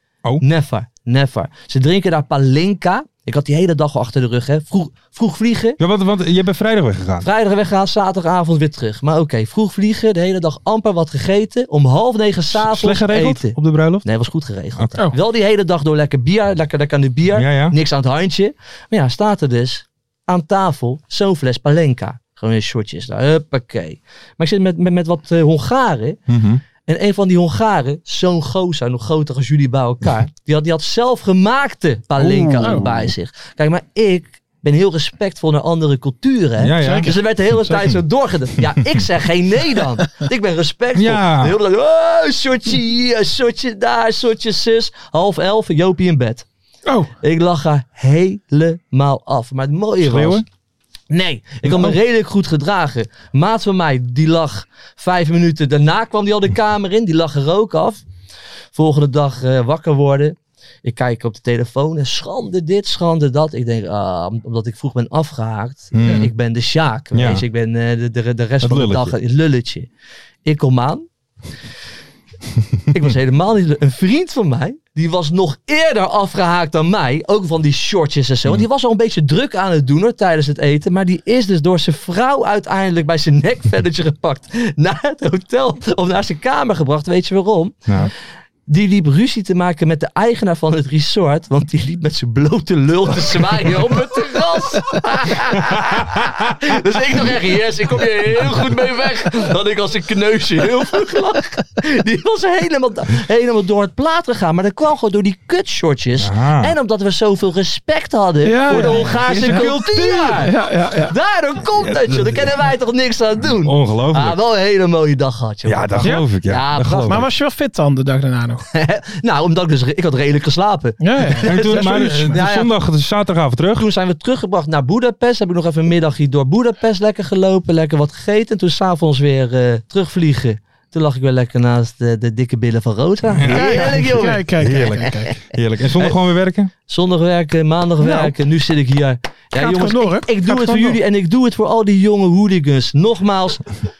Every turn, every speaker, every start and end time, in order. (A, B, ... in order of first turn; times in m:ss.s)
0:00.4-0:05.8 A
0:05.8-0:07.3 B
0:07.2-0:26.2 A
0:12.5-0:14.0 B
0:14.8-0:15.0 B
0:17.3-0:17.7 B
0:26.3-0:26.6 B
0:26.8-0:46.4 A
0:32.2-0:33.1 B
0:36.6-0:37.2 B
0:36.8-0:37.1 C
0:40.9-0:41.6 B
0:46.9-0:47.1 C
0:47.2-0:50.4 A
0:50.0-0:50.4 B
0:51.1-0:58.0 A
0:51.6-0:52.0 B
0:58.7-1:09.9 A
1:05.9-1:06.3 B
1:07.1-1:07.4 B
1:08.6-1:09.1 B
1:10.4-1:11.0 A
1:12.9-1:28.1 A
1:28.7-1:57.2 A
1:46.2-1:46.7 B
1:48.4-1:49.7 C
1:48.7-1:50.3 B
1:50.3-1:51.1 C
1:51.8-1:52.5 B
1:53.6-1:54.4 B
1:55.6-1:57.2 B
1:56.0-1:56.3 C
1:57.0-1:58.6 C
1:58.7-2:02.7 A
2:01.0-2:02.3 C
2:01.4-2:03.9 B
2:03.8-2:14.4 A
2:13.3-2:16.7 B
2:13.4-2:15.3 C
2:16.9-2:23.6 A
2:18.0-2:18.3 C
2:19.5-2:21.0 C